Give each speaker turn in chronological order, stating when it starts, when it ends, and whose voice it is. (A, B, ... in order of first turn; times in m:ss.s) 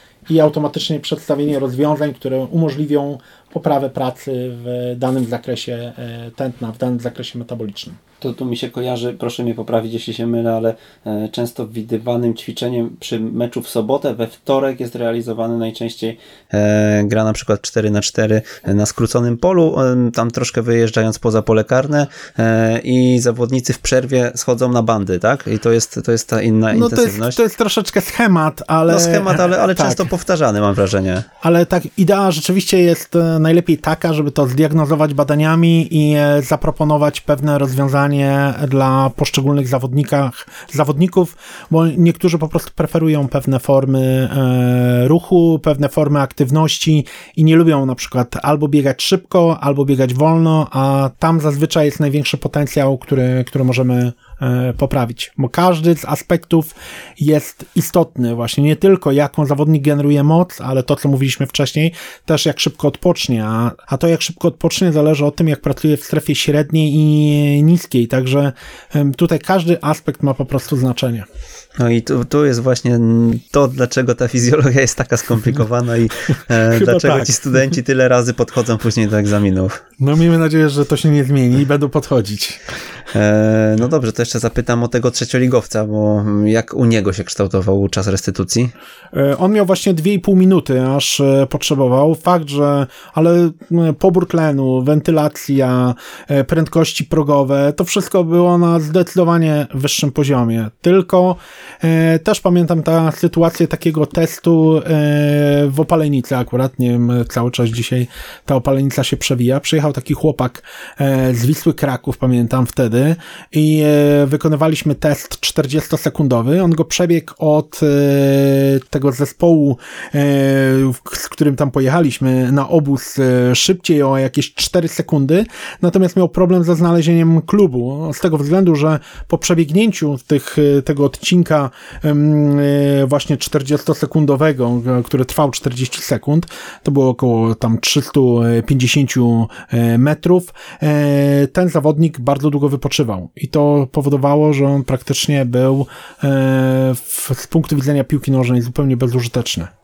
0:00.3-0:08.0 A
0:08.2-0:27.4 B
0:26.7-0:30.1 A
0:28.9-0:31.3 B
0:31.4-1:11.3 A
1:11.8-1:19.8 B
1:16.6-1:17.3 A
1:20.0-1:22.6 A
1:23.1-1:28.7 B
1:29.1-2:29.7 A